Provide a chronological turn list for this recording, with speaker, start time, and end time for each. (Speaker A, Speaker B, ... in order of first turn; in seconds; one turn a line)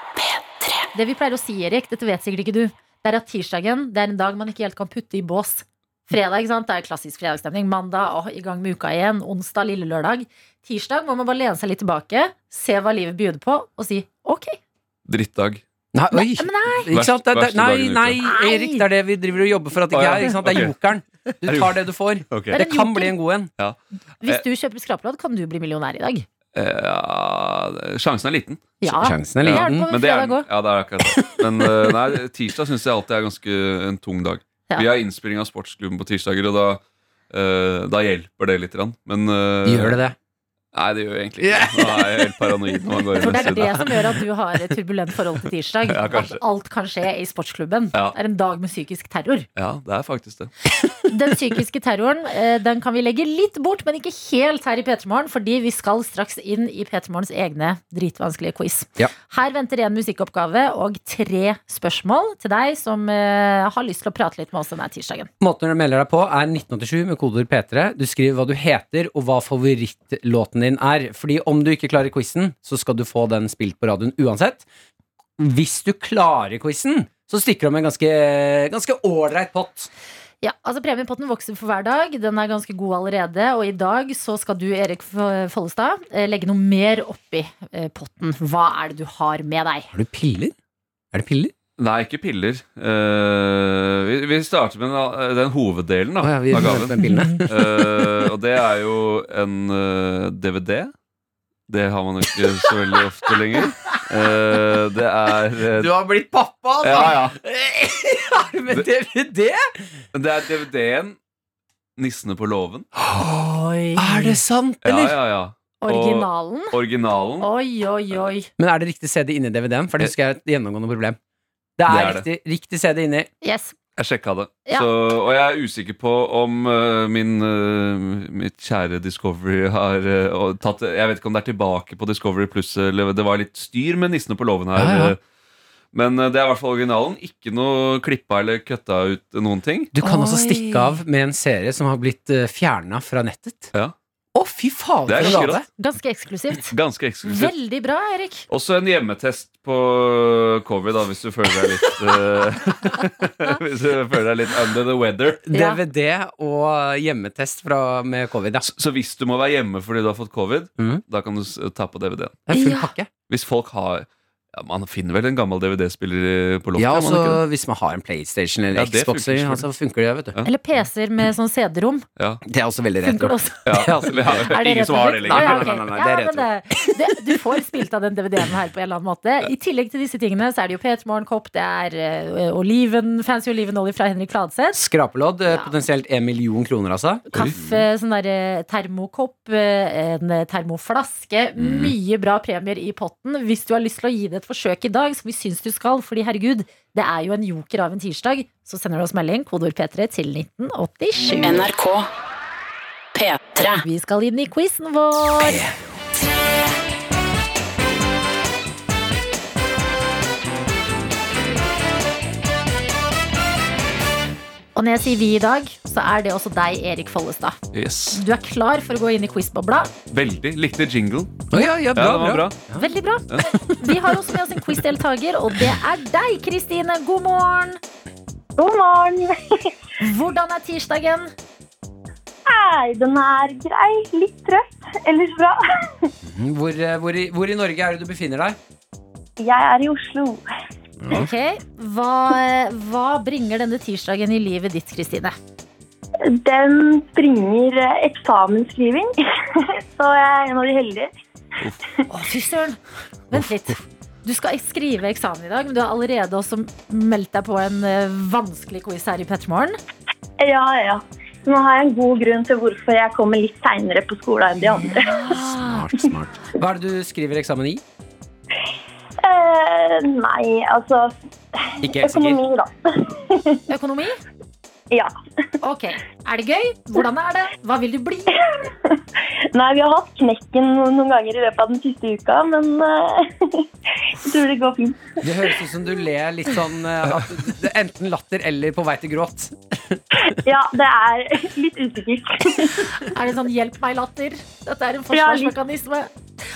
Speaker A: 0.2-0.8
Speaker B: 0.9-14.6
Speaker C: 15.1-15.6
Speaker D: 15.9-23.5
Speaker B: 16.1-16.9
Speaker C: 16.9-18.2
Speaker B: 18.2-18.9
Speaker C: 19.9-20.8
Speaker C: 21.5-22.6
Speaker B: 22.5-23.1
Speaker C: 23.6-24.4
Speaker B: 24.2-26.3
Speaker C: 26.5-28.8
Speaker B: 28.8-30.5
Speaker D: 28.8-29.9
Speaker C: 29.4-40.0
Speaker D: 31.2-31.9
Speaker D: 39.6-40.1
Speaker C: 40.7-43.9
Speaker D: 41.4-42.4
Speaker D: 43.0-43.9
Speaker B: 43.2-49.5
Speaker C: 45.9-46.4
Speaker C: 49.6-50.5
Speaker B: 51.1-65.3
Speaker D: 65.4-74.7
Speaker D: 75.4-79.9
Speaker B: 80.4-89.9
Speaker D: 89.9-90.5
Speaker D: 91.1-91.5
Speaker C: 91.8-100.9
Speaker D: 96.2-98.3
Speaker B: 97.0-97.4
Speaker C: 101.7-105.9
Speaker D: 103.3-103.9
Speaker D: 105.7-109.8
Speaker C: 106.8-107.4
Speaker C: 110.1-111.2
Speaker C: 112.0-112.9
Speaker B: 113.2-114.4
Speaker D: 114.0-115.2
Speaker C: 114.8-117.5
Speaker B: 115.8-116.8
Speaker B: 117.4-118.5
Speaker D: 118.6-121.2
Speaker D: 121.8-123.3
Speaker C: 121.9-122.3
Speaker B: 123.4-123.8
Speaker C: 124.0-135.2
Speaker D: 134.8-135.2
Speaker C: 135.9-139.9
Speaker D: 139.9-143.7
Speaker B: 140.0-141.0
Speaker D: 144.3-145.7
Speaker C: 145.1-145.6
Speaker B: 145.2-148.5
Speaker C: 146.7-147.5
Speaker C: 148.5-155.4
Speaker D: 155.5-158.7
Speaker B: 155.5-155.8
Speaker C: 158.6-162.4
Speaker D: 160.8-161.0
Speaker D: 162.5-163.1
Speaker B: 162.5-162.9
Speaker C: 163.2-167.4
Speaker D: 166.8-170.4
Speaker C: 168.7-169.7
Speaker B: 170.4-172.1
Speaker D: 172.5-174.5
Speaker B: 173.0-184.8
Speaker C: 173.7-175.7
Speaker D: 175.2-176.5
Speaker D: 184.7-187.7
Speaker B: 185.5-185.7
Speaker B: 187.3-201.7
Speaker A: 201.4-202.1
Speaker A: 203.2-203.8
Speaker B: 203.8-205.6
Speaker B: 214.8-217.6
Speaker C: 217.7-218.2
Speaker B: 218.1-219.9
Speaker C: 220.1-222.6
Speaker D: 221.5-222.9
Speaker B: 222.8-227.8
Speaker E: 228.6-229.7
Speaker B: 230.0-231.3
Speaker E: 232.5-236.1
Speaker D: 236.2-238.6
Speaker E: 239.4-240.4
Speaker D: 241.0-241.3
Speaker B: 241.1-245.4
Speaker E: 246.3-251.1
Speaker B: 252.1-252.8
Speaker B: 253.3-259.8
Speaker E: 260.4-265.3
Speaker B: 264.6-265.9
Speaker D: 265.3-267.8
Speaker E: 269.2-273.6
Speaker D: 271.8-272.4
Speaker B: 273.7-274.2
Speaker B: 275.6-278.5
Speaker E: 278.4-279.0
Speaker E: 279.5-285.3
Speaker D: 285.2-290.0
Speaker E: 290.2-292.9
Speaker B: 293.0-296.1
Speaker E: 295.1-295.5